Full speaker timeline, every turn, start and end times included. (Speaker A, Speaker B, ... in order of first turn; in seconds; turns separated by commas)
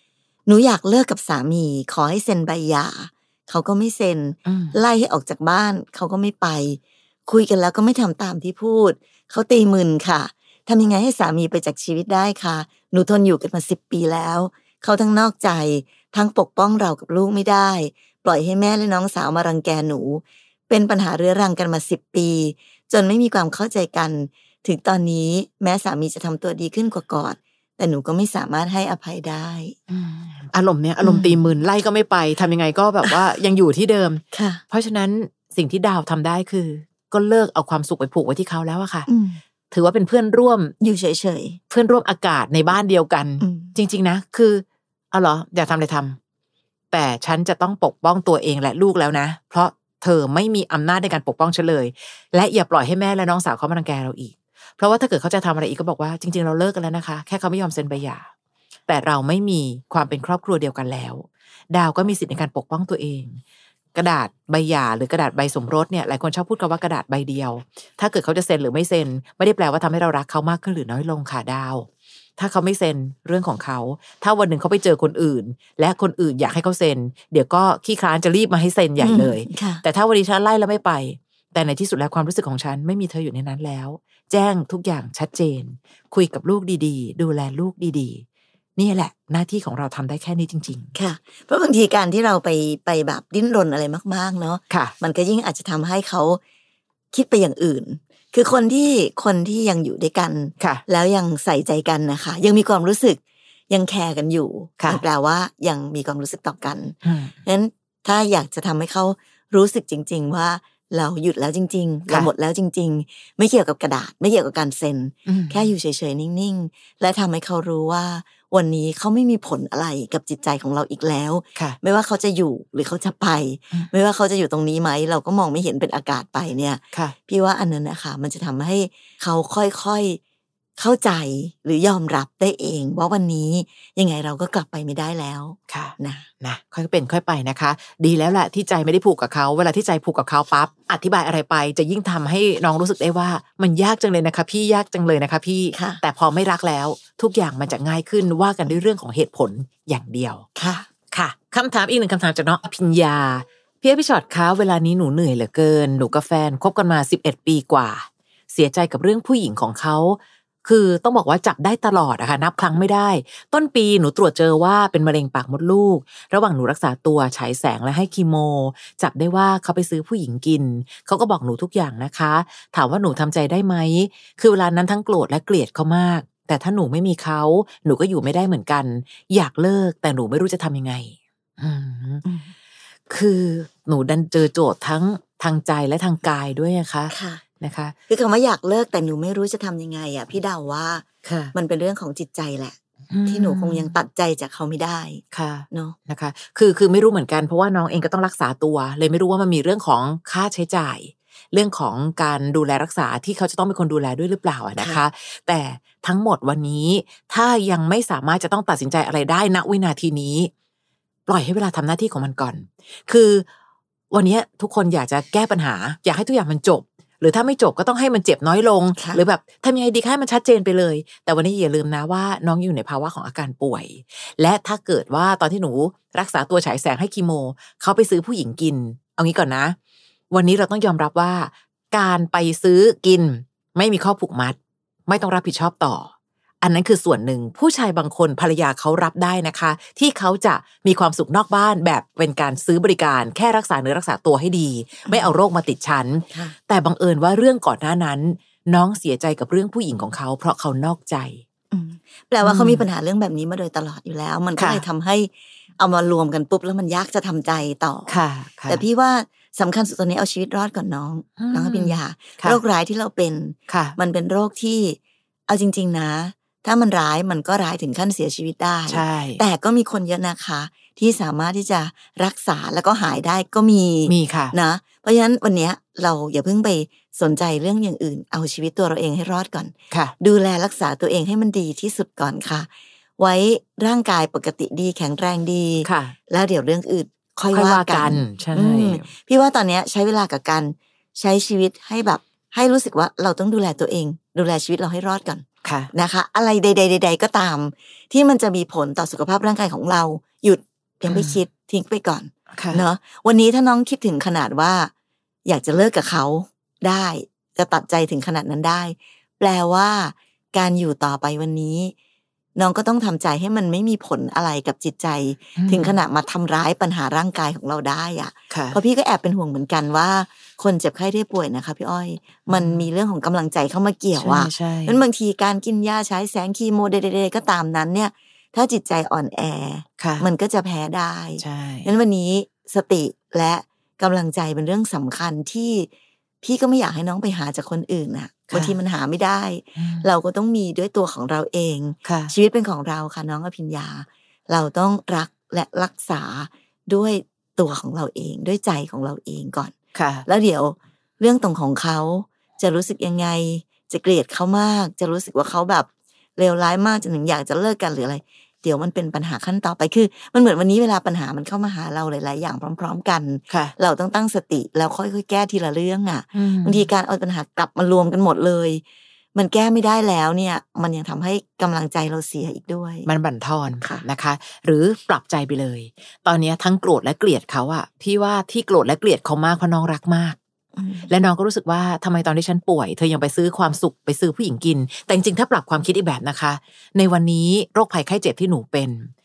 Speaker A: 0.5-29.8, Speaker B: 4.5-4.8, Speaker B: 29.9-39.1, Speaker A: 31.0-31.4, Speaker A: 34.3-34.6, Speaker A: 39.1-39.4, Speaker B: 39.7-40.7, Speaker A: 40.8-41.6, Speaker B: 41.7-46.2, Speaker A: 43.4-43.7, Speaker B: 46.9-58.3, Speaker B: 58.9-63.4, Speaker B: 63.9-71.9, Speaker B: 72.4-88.2, Speaker A: 79.0-79.8, Speaker B: 88.8-90.9, Speaker A: 90.9-96.4, Speaker A: 97.1-130.2, Speaker B: 107.0-107.3, Speaker B: 115.3-115.7, Speaker A: 130.8-136.3, Speaker B: 135.7-150.5, Speaker A: 145.7-146.0, Speaker A: 150.6-150.9, Speaker B: 151.1-182.2, Speaker A: 182.2-182.5, Speaker B: 183.1-187.9, Speaker A: 187.1-187.4, Speaker A: 188.1-192.8, Speaker B: 191.2-191.5, Speaker B: 193.1-193.9, Speaker A: 193.3-195.9, Speaker B: 195.3-210.5, Speaker B: 211.3-213.4, Speaker B: 214.1-229.8, Speaker A: 219.0-219.2, Speaker B: 230.3-236.1, Speaker B: 236.6-251.4, Speaker A: 251.7-258.1, Speaker B: 252.4-252.8, Speaker B: 254.6-254.8, Speaker B: 258.1-258.8, Speaker A: 258.7-304.9, Speaker B: 261.4-262.6, Speaker B: 263.7-264.0, Speaker B: 268.9-269.4, Speaker B: 274.1-274.5, Speaker B: 285.8-286.1, Speaker B: 287.5-289.1, Speaker B: 295.6-295.9, Speaker B: 301.1-301.4, Speaker B: 302.5-302.8, Speaker A: 305.4-311.9, Speaker A: 312.6-335.9, Speaker B: 315.6-316.0, Speaker B: 318.5-318.8, Speaker B: 322.5-322.8, Speaker B: 324.2-325.0, Speaker B: 330.0-330.2, Speaker B: 331.4-331.9, Speaker A: 336.4-349.7, Speaker B: 338.5-338.8, Speaker B: 339.8-340.1, Speaker B: 342.0-342.3, Speaker B: 349.9-350.2, Speaker A: 350.2-368.8, Speaker B: 366.3-366.9, Speaker A: 369.3-373.1, Speaker B: 373.1-380.4, Speaker A: 380.8-381.1, Speaker B: 381.1-389.1